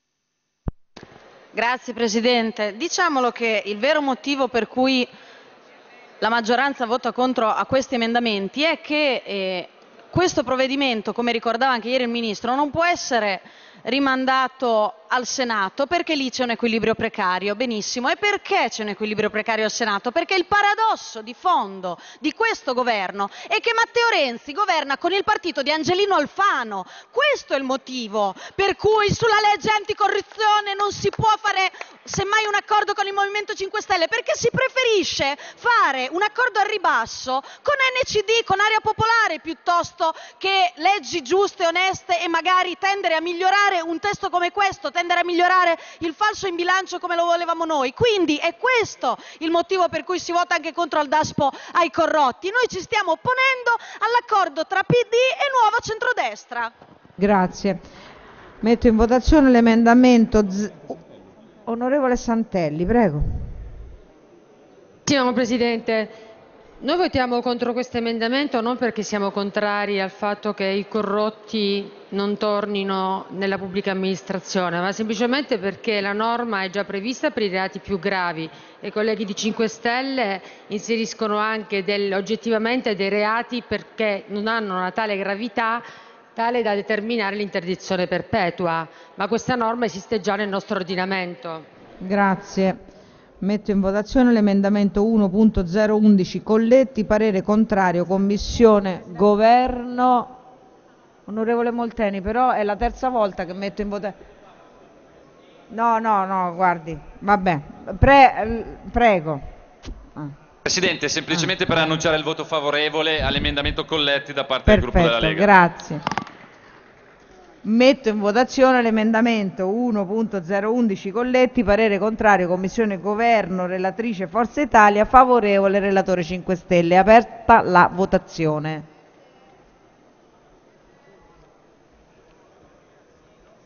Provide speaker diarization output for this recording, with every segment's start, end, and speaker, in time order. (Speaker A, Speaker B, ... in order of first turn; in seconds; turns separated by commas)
Speaker A: 1.5-5.1, Speaker A: 6.2-56.7, Speaker B: 57.2-57.8, Speaker B: 58.6-61.0, Speaker B: 61.6-63.5, Speaker C: 65.1-66.1, Speaker C: 66.8-91.6, Speaker B: 92.0-92.8, Speaker B: 93.4-100.3, Speaker B: 101.3-104.1, Speaker B: 105.7-109.4, Speaker D: 110.6-115.5, Speaker B: 114.7-116.0, Speaker B: 117.6-128.9